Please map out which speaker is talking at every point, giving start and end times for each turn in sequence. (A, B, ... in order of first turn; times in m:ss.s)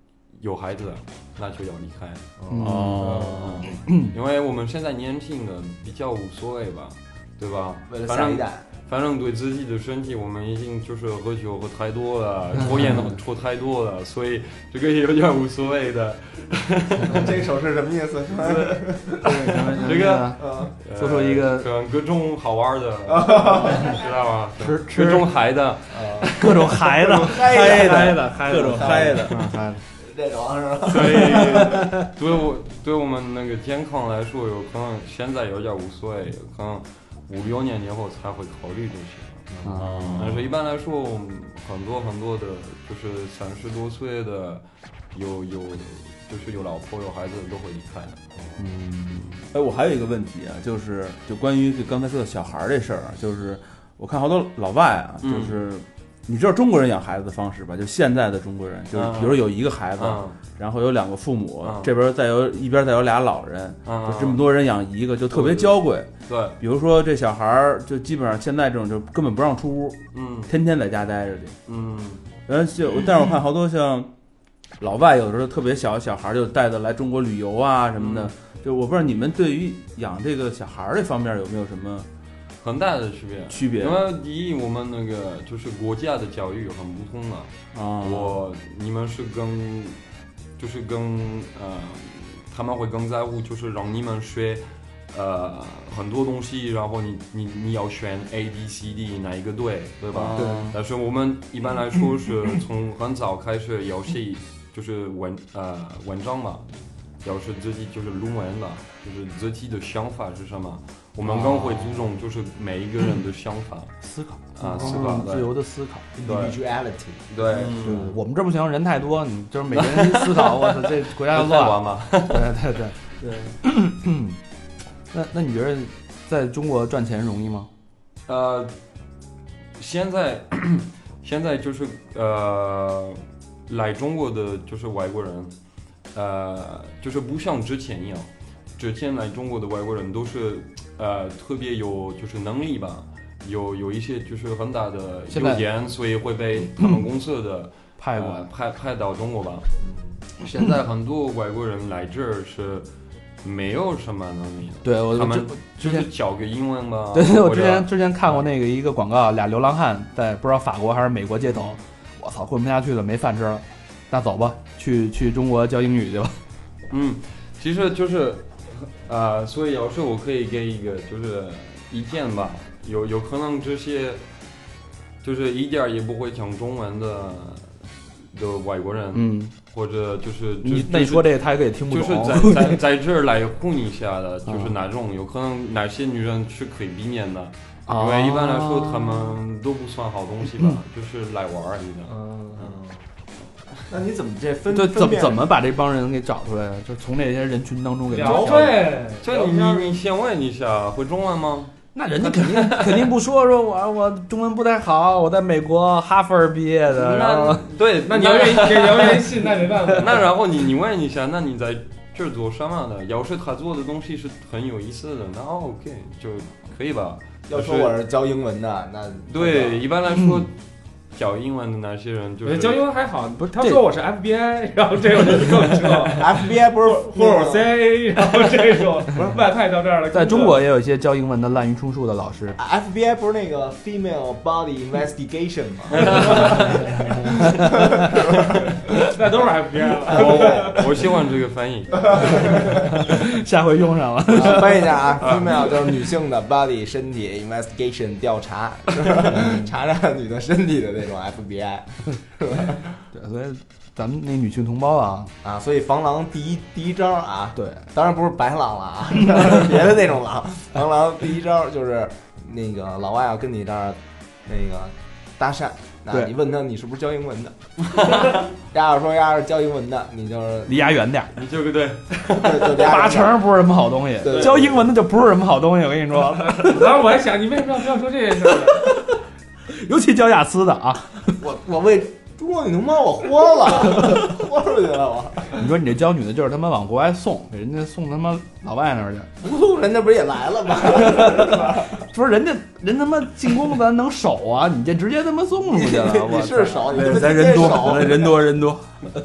0:00.3-0:02.2 A
0:02.4-0:03.6 B
0:02.5-0:04.1 C
0:02.5-0:03.6 D
0:03.2-0:17.3 A
0:07.9-0:08.6 B
0:17.1-0:19.3 B
0:18.5-0:21.7 C
0:19.8-0:26.8 A
0:19.9-0:20.7 B
0:23.1-0:24.0 B
0:24.6-0:25.3 C
0:25.9-0:26.4 B
0:26.3-0:29.8 C
0:27.0-0:31.8 B
0:27.4-0:29.4 D
0:30.9-0:39.5 A
0:30.9-0:32.0 C
0:39.5-0:39.8 B
0:39.6-0:40.2 C
0:39.7-0:40.5 D
0:40.1-0:48.2 A
0:48.4-0:48.6 B
0:48.6-0:49.1 C
0:49.5-1:06.1 D
0:55.2-0:55.6 A
0:58.9-1:00.4 A
1:01.6-1:01.9 A
1:03.8-1:04.4 A
1:05.3-1:06.6 A
1:06.6-1:11.6 D
1:10.1-1:10.5 A
1:11.7-1:12.3 A
1:12.4-1:14.1 D
1:14.8-1:22.1 D
1:18.0-1:18.3 A
1:22.6-1:30.0 A
1:23.5-1:24.0 D
1:27.7-1:28.4 D
1:30.6-1:46.7 A
1:40.1-1:40.8 D
1:40.3-1:40.7 C
1:47.2-1:53.9 A
1:51.3-1:51.9 C
1:54.0-1:56.1 C
1:54.6-1:55.5 A
1:56.1-1:57.2 B
1:56.2-1:56.5 A
1:57.3-1:58.1 A
1:57.5-1:58.1 D
1:57.8-2:03.0 C
1:59.7-2:02.6 A
2:03.6-2:04.4 C
2:05.1-2:07.7 C
2:08.2-2:08.7 A
2:09.8-2:15.5 A
2:16.1-2:29.7 A
2:25.3-2:25.6 C
2:26.7-2:27.0 C
2:28.0-2:28.5 C
2:29.8-2:30.2 B
2:30.4-2:32.9 A
2:33.4-2:38.4 A
2:34.8-2:36.1 C
2:37.1-2:46.4 C
2:46.9-2:54.2 A
2:55.2-3:01.3 A
2:59.1-2:59.5 C
3:00.6-3:02.8 C
3:01.9-3:12.1 A
3:04.5-3:04.7 C
3:07.9-3:09.4 C
3:12.0-3:12.7 E
3:12.6-3:13.0 B
3:13.8-3:15.5 B
3:14.7-3:18.7 C
3:18.1-3:19.9 E
3:18.2-3:23.1 A
3:21.9-3:27.7 C
3:26.9-3:37.9 A
3:28.0-3:30.3 E
3:37.5-3:39.8 B
3:39.3-3:40.6 A
3:40.1-3:40.5 C
3:41.1-3:42.8 A
3:42.4-3:50.6 E
3:43.4-3:43.8 C
3:46.2-3:47.8 B
3:49.2-3:49.4 B
3:50.1-3:52.6 C
3:52.6-3:56.8 B
3:55.9-3:56.9 A
3:56.3-3:56.5 E
3:57.2-3:58.1 C
3:57.5-3:58.5 B
3:58.9-4:00.8 E
4:00.0-4:00.9 B
4:00.1-4:02.6 A
4:02.0-4:02.8 B
4:02.5-4:05.0 C
4:04.3-4:12.9 B
4:05.2-4:05.7 A
4:09.3-4:09.7 C
4:13.1-4:15.3 C
4:15.4-4:27.6 B
4:17.6-4:17.8 C
4:27.9-4:28.4 A
4:28.7-4:30.9 B
4:30.7-4:31.3 C
4:31.3-4:32.8 A
4:32.3-4:33.4 B
4:32.8-4:36.9 C
4:34.2-4:34.8 B
4:34.3-4:34.6 A
4:36.5-4:38.9 E
4:38.7-4:39.1 C
4:39.7-4:41.4 C
4:41.4-4:45.6 B
4:45.5-4:49.3 C
4:49.4-4:52.0 B
4:51.1-4:59.0 C
4:55.7-4:58.3 B
4:57.0-4:58.7 D